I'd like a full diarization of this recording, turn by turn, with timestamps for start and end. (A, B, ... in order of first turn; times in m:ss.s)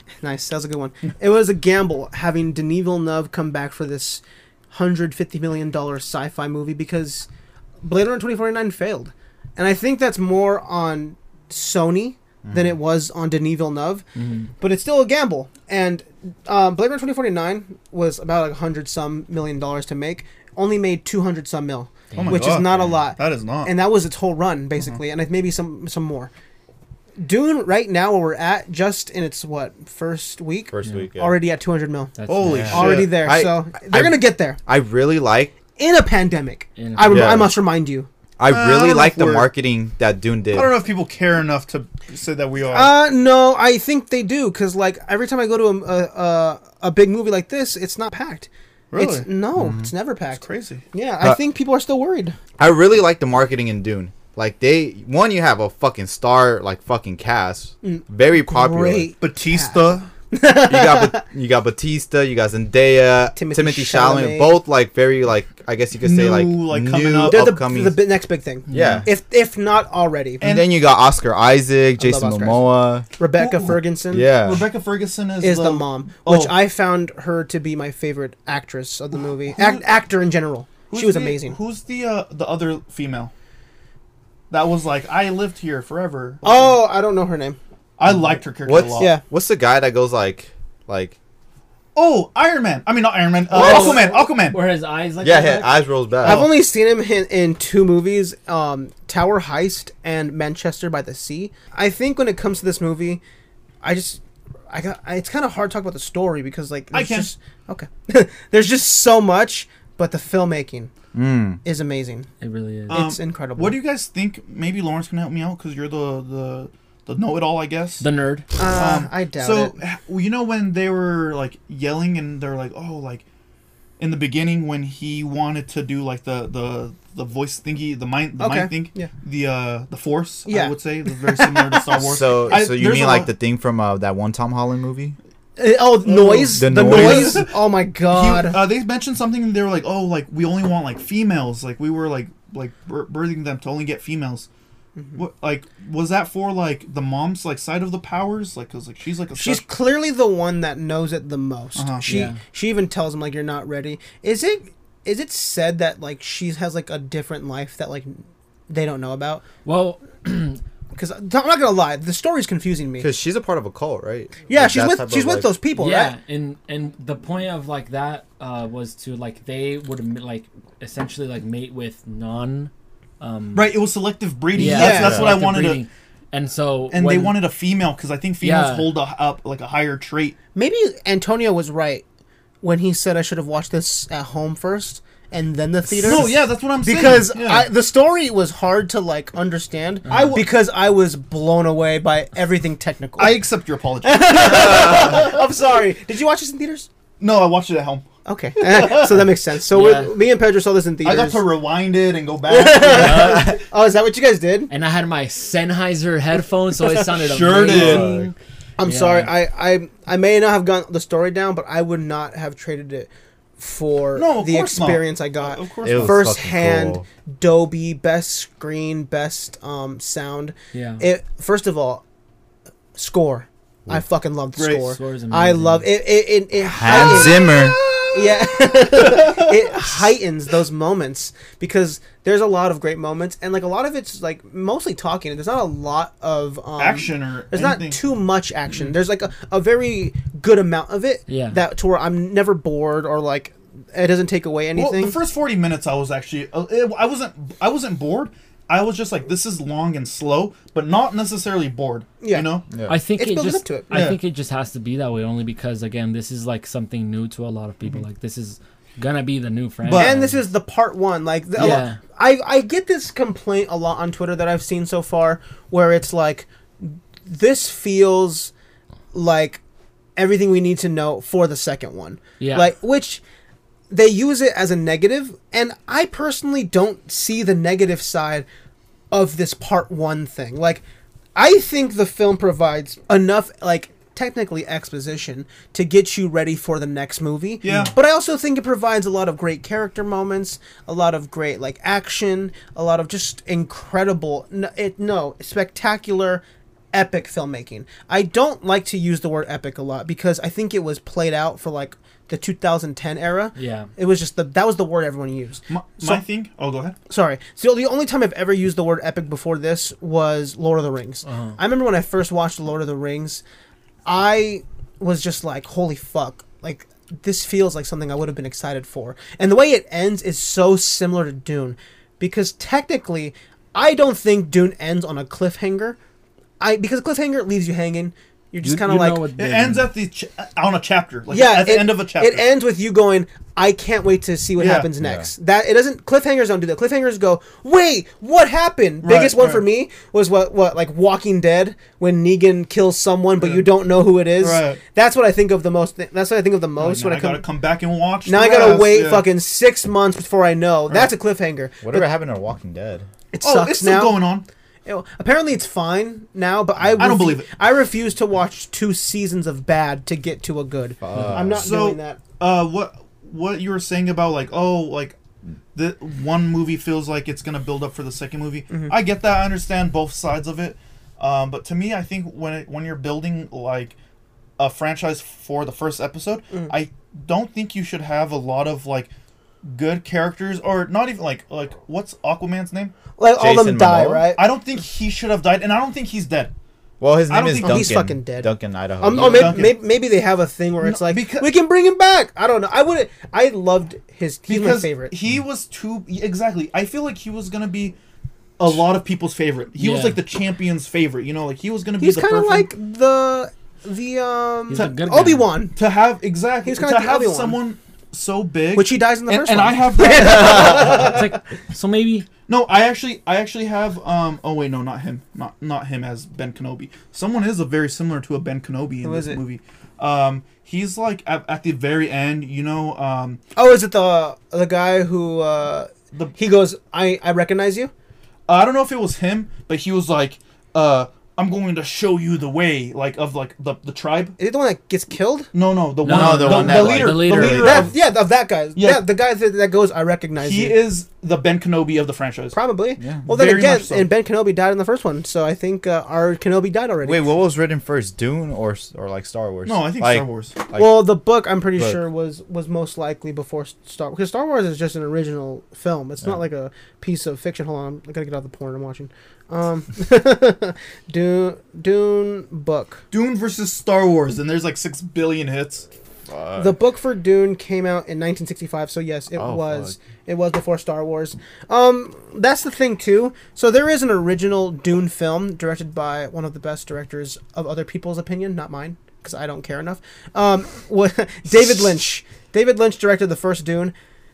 0:00.2-0:07.3 A
0:07.8-0:14.0 A
0:12.4-0:12.8 B
0:14.2-0:14.5 C
0:14.6-0:26.3 A
0:22.1-0:22.5 C
0:22.2-0:23.7 D
0:27.2-0:32.2 A
0:30.7-0:31.4 B
0:32.2-0:32.8 C
0:32.3-0:33.2 D
0:32.4-0:35.6 B
0:32.7-0:34.6 A
0:35.8-0:38.1 A
0:36.8-0:37.4 C
0:37.1-0:37.5 B
0:38.4-0:40.7 B
0:38.5-0:39.5 D
0:40.5-0:43.0 D
0:42.7-0:52.4 A
0:48.9-0:49.3 D
0:49.6-0:49.9 B
0:50.4-0:50.8 D
0:52.6-0:59.1 B
0:57.8-1:01.2 A
0:59.2-1:00.1 D
1:00.7-1:08.0 B
1:03.4-1:04.6 A
1:06.0-1:07.6 D
1:07.3-1:10.5 A
1:08.7-1:09.1 C
1:08.7-1:09.1 B
1:10.4-1:10.7 D
1:10.4-1:13.1 B
1:12.0-1:12.6 A
1:13.2-1:14.3 A
1:13.4-1:13.8 D
1:14.1-1:14.7 B
1:14.4-1:16.6 D
1:15.4-1:21.6 A
1:19.5-1:19.8 D
1:20.9-1:23.3 D
1:24.5-1:26.8 D
1:26.4-1:27.6 A
1:28.0-1:29.1 D
1:28.6-1:31.2 B
1:29.0-1:29.2 A
1:32.0-1:34.6 D
1:33.5-1:34.2 A
1:33.5-1:35.8 C
1:35.2-1:36.5 B
1:36.2-1:43.2 A
1:36.2-1:36.5 D
1:43.8-1:50.9 A
1:46.9-1:47.3 D
1:51.1-1:51.6 B
1:51.6-1:52.3 A
1:52.4-1:53.0 C
1:52.9-1:53.8 A
1:52.9-1:58.0 D
1:58.0-1:58.5 C
1:58.6-1:59.8 A
1:58.8-2:03.2 D
2:04.0-2:13.3 D
2:08.4-2:09.1 A
2:10.5-2:12.1 A
2:12.0-2:15.2 B
2:15.6-2:18.6 A
2:16.0-2:24.5 D
2:16.5-2:17.4 B
2:25.2-2:29.6 D
2:29.4-2:39.4 A
2:31.8-2:32.1 D
2:32.0-2:32.4 C
2:39.6-2:40.6 C
2:40.9-2:43.1 A
2:43.0-2:45.5 B
2:44.5-2:46.2 A
2:45.8-2:53.8 C
2:53.6-2:55.8 D
2:54.5-2:57.4 C
2:54.6-2:55.2 A
2:54.9-2:55.3 B
2:56.9-3:00.4 D
2:58.4-2:58.9 C
3:00.6-3:02.0 A
3:02.6-3:13.4 A
3:05.9-3:07.7 D
3:10.1-3:10.4 C
3:10.1-3:10.4 D
3:13.2-3:15.3 D
3:14.0-3:16.9 A
3:17.2-3:18.1 D
3:18.3-3:21.4 A
3:18.6-3:19.3 D
3:19.7-3:20.1 C
3:21.0-3:23.5 D
3:22.5-3:24.7 A
3:22.8-3:23.6 C
3:24.7-3:28.3 C
3:27.0-3:28.2 D
3:27.7-3:28.3 B
3:28.8-3:42.0 A
3:28.8-3:29.3 C
3:34.2-3:36.2 D
3:35.8-3:37.0 B
3:40.7-3:41.0 C
3:43.0-3:47.6 A
3:44.6-3:44.9 D
3:44.9-3:45.9 C
3:46.6-3:47.8 B
3:46.9-3:50.1 D
3:48.1-4:05.2 A
3:56.8-3:58.0 D
4:01.3-4:01.6 C
4:04.8-4:12.6 D
4:12.2-4:12.5 A
4:12.9-4:20.2 C
4:13.2-4:14.0 A
4:13.9-4:14.2 D
4:19.8-4:20.2 D
4:20.0-4:28.5 A
4:21.6-4:22.0 C
4:29.1-4:29.6 A
4:30.2-4:33.2 A
4:32.4-4:32.7 C
4:33.9-4:38.5 A
4:39.1-4:40.8 A
4:41.4-5:06.2 A
4:47.6-4:47.9 D
5:03.6-5:03.9 C
5:05.7-5:07.0 D
5:07.1-5:13.4 A
5:11.3-5:11.6 C
5:14.1-5:26.0 A
5:26.6-5:29.3 A
5:28.6-5:29.9 C
5:29.4-5:32.4 D
5:31.3-5:47.4 A
5:34.6-5:34.9 D
5:35.0-5:35.3 B
5:39.0-5:39.7 D
5:43.4-5:43.7 D
5:44.4-5:44.8 D
5:46.8-5:49.3 D
5:48.3-5:52.1 A
5:51.8-5:53.1 B
5:53.3-5:54.2 A
5:53.4-5:54.5 D
5:54.9-6:02.2 A
5:57.0-5:57.5 D
6:01.0-6:01.7 B
6:01.6-6:05.2 D
6:05.7-6:14.0 D
6:14.6-6:19.1 D
6:19.6-6:22.9 D
6:23.2-6:24.4 A
6:23.4-6:24.3 B
6:24.4-6:26.5 D
6:27.0-6:29.7 B
6:27.3-6:27.9 D
6:27.6-6:35.1 A
6:29.1-6:29.8 D
6:30.8-6:31.5 D
6:34.5-6:38.0 D
6:38.6-6:42.7 D
6:39.8-6:40.2 C
6:42.0-6:45.7 A
6:44.7-6:45.5 C
6:45.8-6:51.2 D
6:46.6-6:47.6 A
6:48.8-6:51.3 A
6:50.8-6:52.3 C
6:52.5-7:03.4 D
6:59.0-6:59.4 A
7:03.6-7:07.9 A
7:08.5-7:14.4 D
7:14.4-7:15.5 A
7:15.5-7:18.0 D
7:16.0-7:17.9 C
7:16.1-7:17.9 B
7:17.2-7:20.8 A
7:18.8-7:19.1 D
7:20.4-7:22.6 D
7:22.5-7:27.3 A
7:23.2-7:24.1 D
7:27.0-7:31.1 B
7:29.7-7:30.6 D
7:30.8-7:43.0 A
7:43.1-7:45.9 D
7:46.3-7:46.8 B
7:46.6-8:03.9 A
7:49.4-7:49.9 B